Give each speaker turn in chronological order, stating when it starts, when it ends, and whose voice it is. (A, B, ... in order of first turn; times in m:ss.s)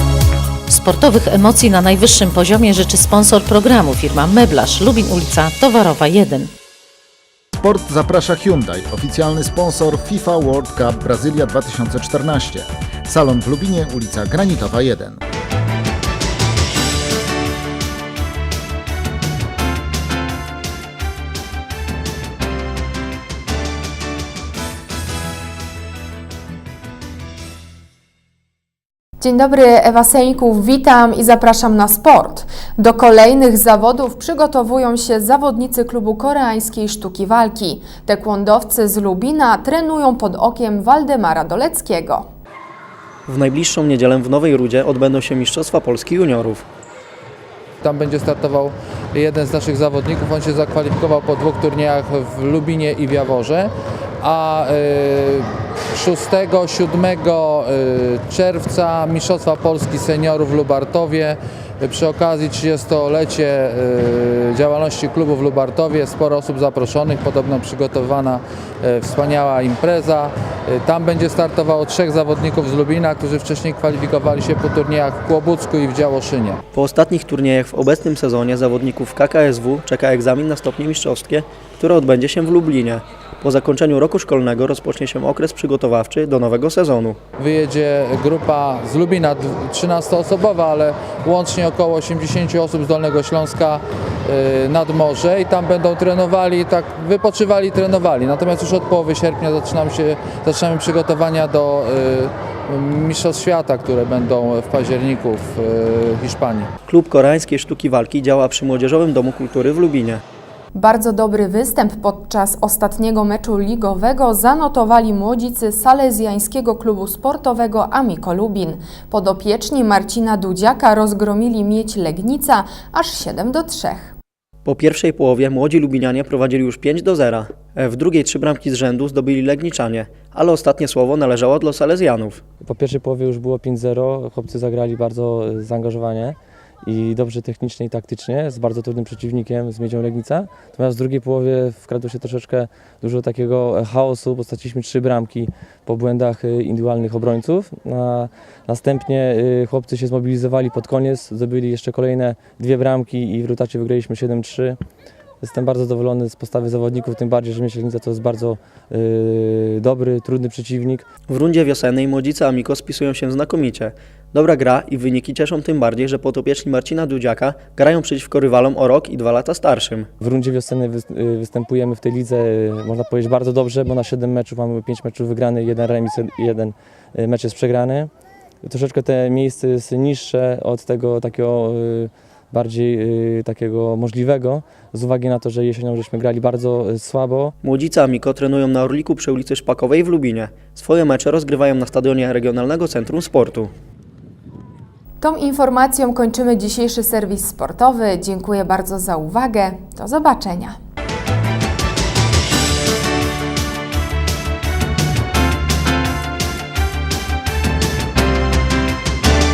0:00.7-0:06.5 A
0:07.6-0:15.2 B
0:29.2-0:42.3 C
0:43.3-0:46.6 D
0:47.8-1:16.6 E
1:16.7-1:27.2 D
1:27.4-1:46.7 E
1:46.9-1:50.2 D
1:50.7-2:04.2 C
2:04.6-2:12.4 D
2:12.6-2:34.8 F
2:35.4-2:41.0 F
2:41.3-2:50.1 D
2:50.2-2:58.1 F
2:58.6-3:07.6 F
3:07.6-3:13.7 D
3:15.2-3:20.8 C